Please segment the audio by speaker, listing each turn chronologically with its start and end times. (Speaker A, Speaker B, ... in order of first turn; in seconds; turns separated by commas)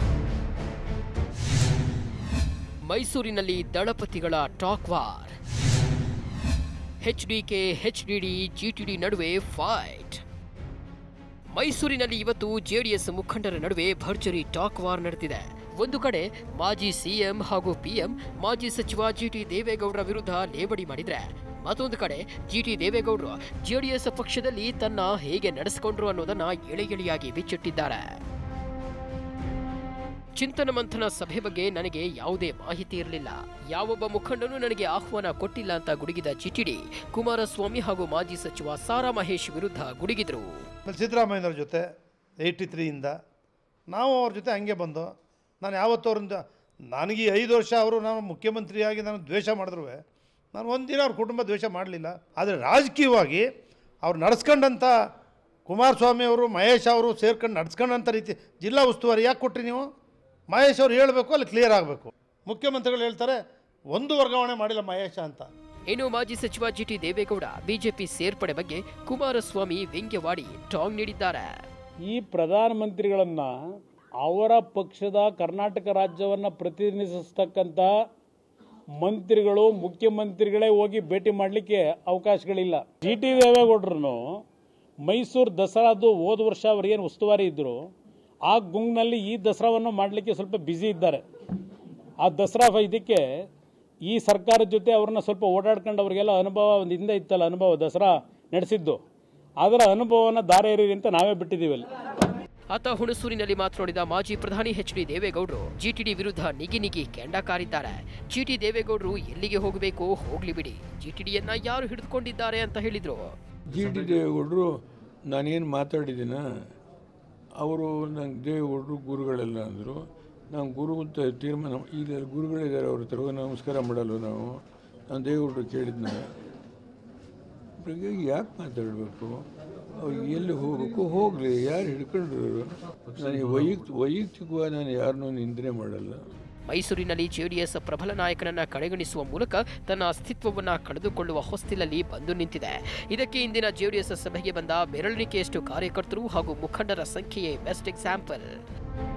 Speaker A: 2.8-5.4, Speaker A: 7.0-10.2, Speaker A: 11.5-28.2, Speaker A: 30.4-40.7, Speaker B: 40.9-41.9, Speaker B: 42.4-43.1, Speaker B: 43.9-50.0, Speaker B: 50.5-53.5, Speaker B: 54.0-54.9, Speaker B: 55.7-59.9, Speaker B: 60.5-63.4, Speaker B: 63.9-65.5, Speaker A: 65.9-71.5, Speaker C: 72.1-73.6, Speaker C: 74.2-77.9, Speaker C: 79.0-84.4, Speaker C: 85.0-87.9, Speaker C: 88.5-91.2, Speaker C: 92.2-93.4, Speaker C: 94.0-99.0, Speaker C: 99.6-101.9, Speaker A: 102.7-113.3, Speaker D: 113.7-114.7, Speaker D: 115.3-116.4, Speaker D: 117.6-126.3, Speaker D: 127.8-136.2, Speaker A: 136.7-148.6